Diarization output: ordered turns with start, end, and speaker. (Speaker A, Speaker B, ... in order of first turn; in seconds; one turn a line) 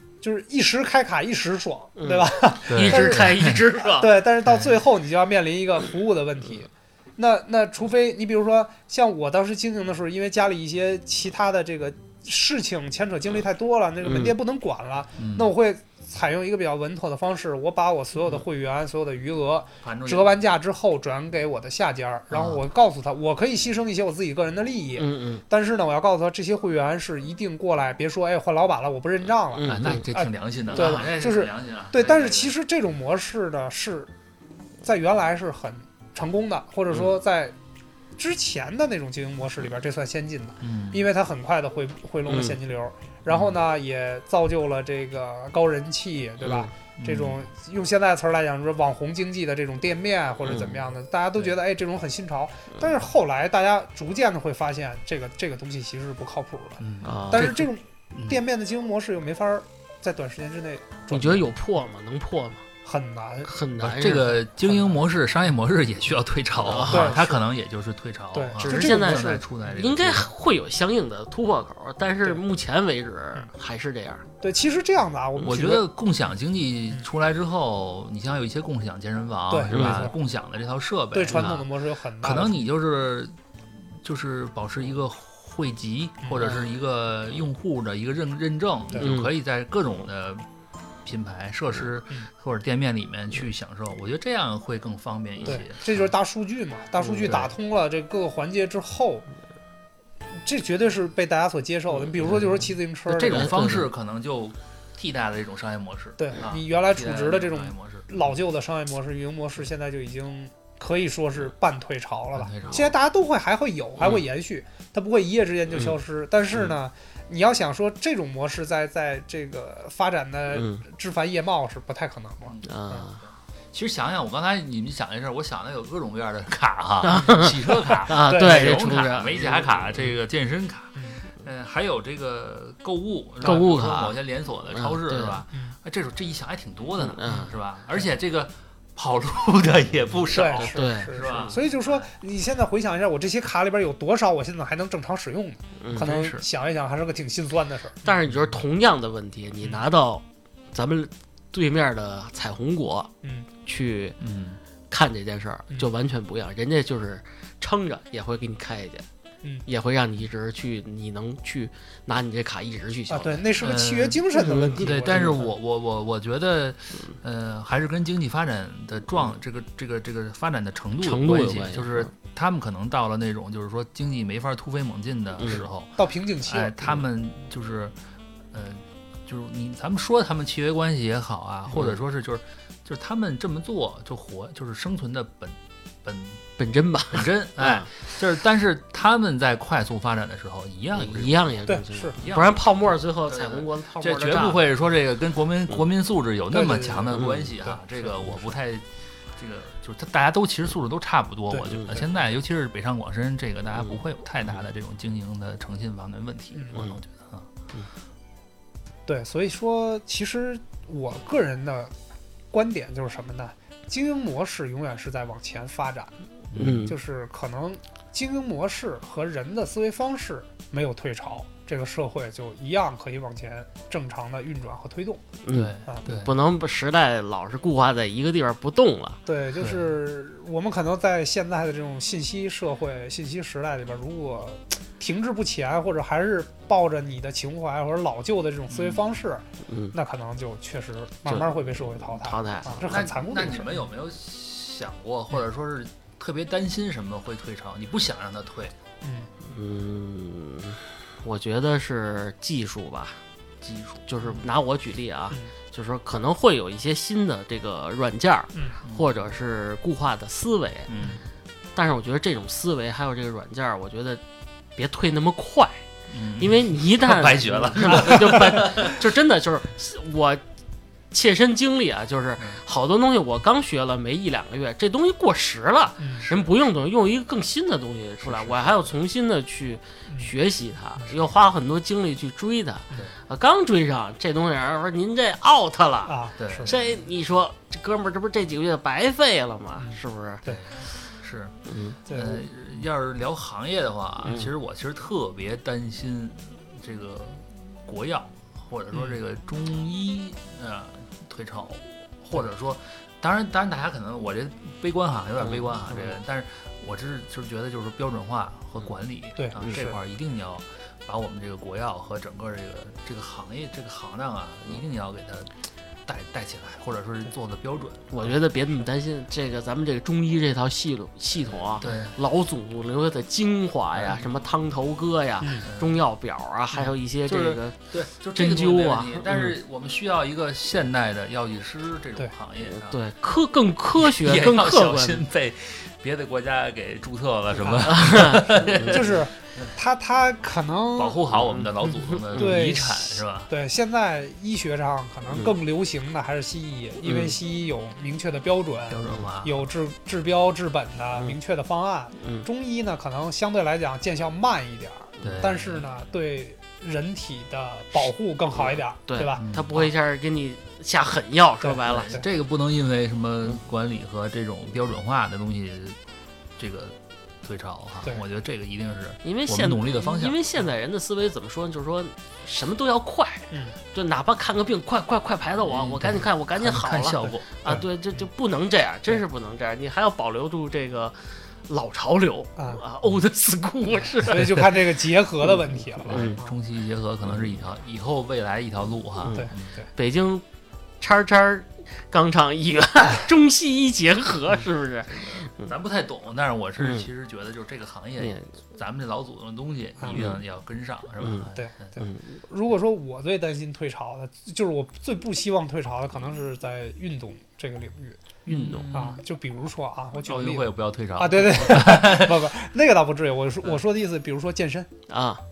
Speaker A: 0.2-34.1
Speaker B: 2.0-4.2
Speaker C: 2.7-3.7
Speaker C: 4.5-4.7
Speaker B: 14.0-14.3
Speaker C: 15.2-15.5
Speaker C: 19.8-20.3
Speaker C: 22.3-22.6
Speaker B: 25.0-25.4
Speaker B: 29.5-30.1
Speaker C: 29.6-32.5
Speaker B: 30.7-31.1
Speaker A: 34.8-37.5
Speaker A: 38.2-61.5
Speaker C: 40.6-41.0
Speaker B: 42.3-42.6
Speaker B: 46.4-46.7
Speaker C: 47.0-47.4
Speaker B: 50.5-50.9
Speaker C: 56.8-57.6
Speaker B: 57.0-57.6
Speaker C: 58.1-58.4
Speaker B: 61.1-62.6
Speaker A: 62.8-63.5
Speaker B: 63.4-64.4
Speaker C: 63.8-70.3
Speaker B: 66.6-67.3
Speaker A: 66.9-67.4
Speaker A: 68.3-69.5
Speaker B: 68.6-74.2
Speaker A: 74.4-75.8
Speaker C: 75.4-81.7
Speaker A: 79.5-80.1
Speaker B: 79.7-80.1
Speaker A: 81.1-82.6
Speaker C: 82.2-90.5
Speaker B: 89.0-89.3
Speaker C: 91.0-96.0
Speaker A: 95.4-99.2
Speaker C: 97.2-97.5
Speaker A: 100.4-103.6
Speaker C: 103.1-108.2
Speaker B: 103.2-103.9
Speaker A: 106.2-123.0
Speaker C: 112.3-112.9
Speaker B: 115.7-116.0
Speaker B: 120.5-120.8
Speaker C: 122.4-122.7
Speaker B: 122.6-123.2
Speaker C: 123.7-142.1
Speaker B: 127.0-129.9
Speaker A: 128.3-128.8
Speaker A: 130.9-131.2
Speaker B: 133.4-134.2
Speaker A: 133.4-133.7
Speaker B: 134.7-135.4
Speaker B: 137.0-137.5
Speaker A: 140.3-148.1
Speaker B: 140.6-141.6
Speaker B: 145.8-146.1
Speaker C: 145.9-146.4
Speaker B: 148.0-153.1
Speaker B: 153.6-154.2
Speaker C: 154.2-154.6
Speaker B: 154.9-159.0
Speaker B: 159.7-163.4
Speaker A: 163.1-165.5
Speaker C: 163.6-177.9
Speaker B: 164.3-165.4
Speaker B: 171.0-172.1
Speaker B: 175.4-175.7
Speaker A: 176.0-176.9
Speaker C: 178.5-186.4
Speaker B: 186.6-188.0
Speaker C: 187.1-191.4
Speaker B: 190.9-194.6
Speaker A: 191.7-192.1
Speaker C: 192.1-198.8
Speaker A: 196.5-197.8
Speaker B: 197.1-197.5
Speaker C: 199.4-207.5
Speaker A: 201.5-202.0
Speaker B: 201.7-202.0
Speaker A: 206.5-206.8
Speaker B: 206.7-207.0
Speaker A: 209.1-211.9
Speaker A: 212.5-216.1
Speaker C: 216.5-216.9
Speaker B: 216.6-216.9
Speaker A: 216.8-225.2
Speaker B: 225.4-229.2
Speaker C: 225.5-226.3
Speaker A: 229.2-243.8
Speaker B: 239.7-239.9
Speaker B: 241.2-243.1
Speaker C: 242.9-248.8
Speaker A: 249.0-249.3
Speaker B: 249.4-253.2
Speaker C: 253.6-254.1
Speaker B: 254.1-260.9
Speaker A: 258.5-258.8
Speaker C: 258.8-259.2
Speaker C: 260.9-261.2
Speaker B: 261.7-264.2
Speaker B: 264.8-265.9
Speaker C: 266.1-269.0
Speaker B: 266.4-270.4
Speaker B: 271.1-290.9
Speaker A: 276.0-276.2
Speaker C: 278.2-278.9
Speaker A: 286.1-286.7
Speaker C: 286.4-287.0
Speaker A: 289.8-290.6
Speaker C: 290.5-315.5
Speaker B: 291.6-292.0
Speaker A: 292.1-292.4
Speaker B: 305.5-305.9
Speaker A: 309.4-309.9
Speaker B: 309.6-309.9
Speaker C: 316.1-318.3
Speaker B: 318.1-327.8
Speaker C: 321.8-322.2
Speaker C: 323.9-324.3
Speaker C: 325.6-326.0
Speaker C: 327.3-333.0
Speaker B: 328.3-329.5
Speaker B: 332.7-335.2
Speaker C: 333.9-339.7
Speaker B: 337.8-339.0
Speaker A: 338.7-341.2
Speaker C: 340.9-343.5
Speaker B: 341.3-342.6
Speaker A: 341.8-359.9
Speaker B: 347.0-347.4
Speaker C: 348.9-349.6
Speaker B: 352.2-352.5
Speaker C: 355.2-355.9
Speaker B: 357.9-362.2
Speaker C: 359.4-359.8
Speaker A: 361.6-362.2
Speaker C: 361.9-366.0
Speaker C: 366.6-370.4
Speaker B: 369.2-384.6
Speaker C: 375.7-377.4
Speaker A: 377.2-377.9
Speaker A: 382.6-382.8
Speaker A: 384.2-386.5
Speaker B: 386.0-386.4
Speaker C: 386.1-389.7
Speaker B: 389.2-390.4
Speaker A: 389.3-389.9
Speaker B: 391.0-395.7
Speaker C: 395.6-401.9
Speaker B: 396.8-397.1
Speaker B: 398.2-398.6
Speaker B: 400.1-400.4
Speaker B: 401.2-402.3
Speaker A: 401.5-414.9
Speaker C: 408.4-409.2
Speaker B: 408.6-408.9
Speaker C: 410.2-412.5
Speaker B: 415.1-415.4